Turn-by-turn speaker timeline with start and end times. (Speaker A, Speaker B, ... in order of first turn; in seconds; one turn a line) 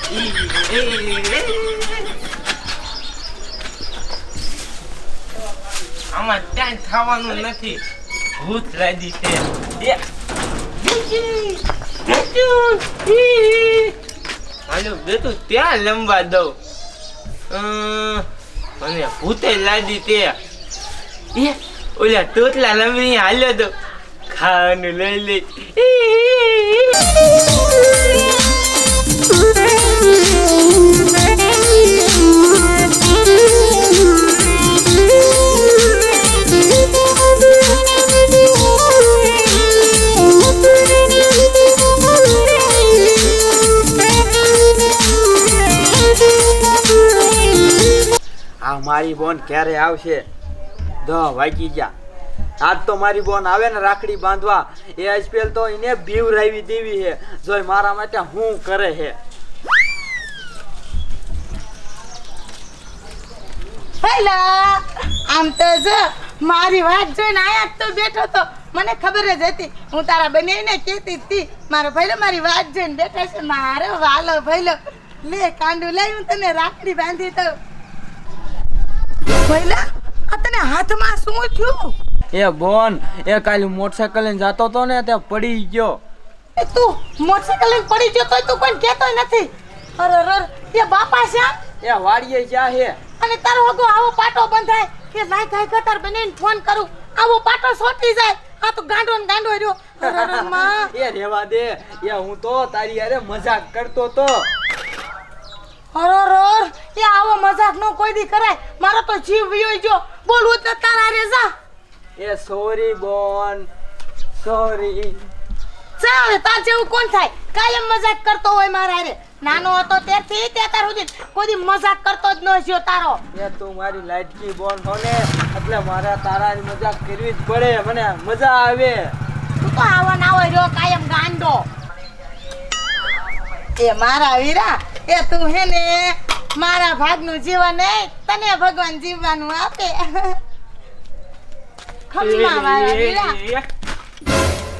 Speaker A: 0.1-2.0
Speaker A: 6.1-7.8
Speaker A: 8.4-10.0
Speaker A: 10.8-13.9
Speaker A: 14.7-16.6
Speaker A: 17.5-18.2
Speaker A: 18.8-20.4
Speaker A: 21.3-23.7
Speaker A: 24.3-26.9
Speaker B: 48.6-50.3
Speaker B: 51.0-51.9
Speaker B: 52.6-59.2
Speaker C: 64.0-77.5
Speaker C: 79.4-81.9
Speaker B: 82.3-86.0
Speaker C: 86.6-91.6
Speaker B: 91.8-93.0
Speaker C: 93.2-100.9
Speaker B: 100.0-104.5
Speaker C: 105.9-111.5
Speaker B: 112.2-113.7
Speaker B: 114.4-115.2
Speaker C: 116.0-123.2
Speaker B: 123.3-129.1
Speaker C: 129.6-131.7
Speaker C: 133.8-140.3
Speaker C: 142.1-143.4
Speaker A: 142.2-143.6